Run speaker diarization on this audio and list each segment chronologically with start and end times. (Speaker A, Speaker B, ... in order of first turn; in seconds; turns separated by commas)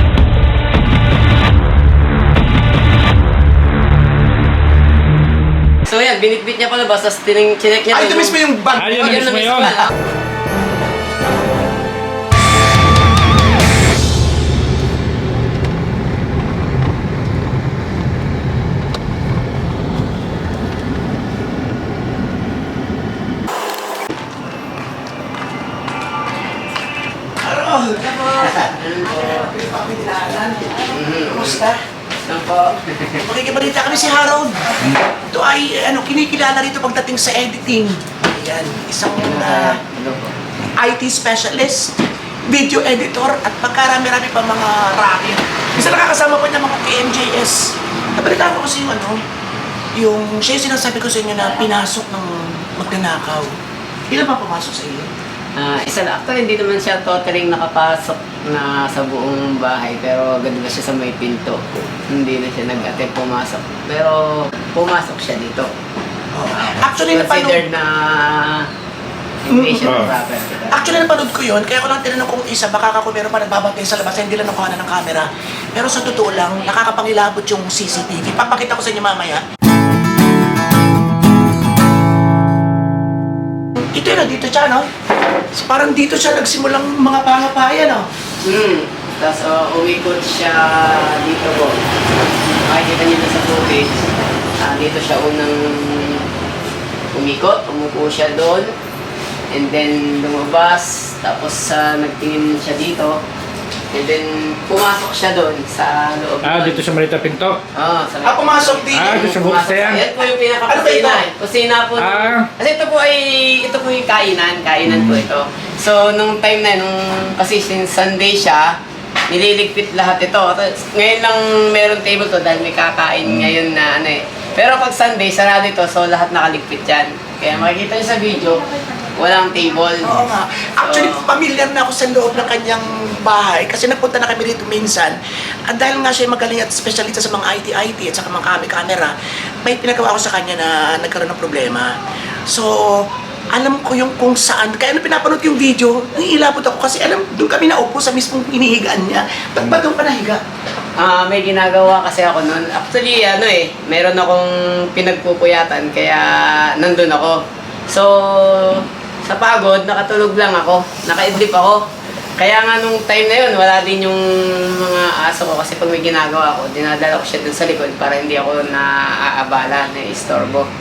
Speaker A: 5.8-8.4, Speaker B: 7.9-9.2, Speaker C: 8.8-9.8, Speaker A: 8.9-9.9, Speaker B: 27.4-31.8, Speaker A: 28.4-29.4, Speaker A: 30.9-31.6, Speaker A: 32.3-33.3, Speaker B: 33.2-34.8, Speaker B: 35.3-39.8, Speaker A: 39.2-40.3, Speaker B: 40.8-41.9, Speaker B: 42.5-49.2, Speaker B: 50.0-53.5, Speaker B: 54.1-55.1, Speaker A: 55.6-65.7, Speaker B: 66.3-67.6, Speaker A: 67.0-68.7, Speaker A: 69.5-71.1, Speaker B: 69.5-70.1, Speaker C: 69.8-70.1, Speaker B: 70.7-79.4, Speaker B: 83.9-84.9, Speaker B: 85.5-88.1, Speaker A: 88.4-91.8, Speaker A: 92.7-96.3, Speaker A: 97.1-98.7, Speaker A: 99.5-103.2, Speaker A: 103.9-106.8, Speaker C: 106.4-107.6, Speaker A: 107.8-118.8, Speaker B: 108.2-109.3, Speaker C: 108.9-110.0, Speaker B: 110.7-111.3, Speaker C: 112.0-112.5, Speaker C: 114.9-115.2, Speaker A: 119.3-130.2, Speaker B: 130.0-141.9, Speaker A: 130.8-131.3, Speaker B: 142.5-150.4, Speaker A: 151.0-161.8, Speaker A: 162.4-170.7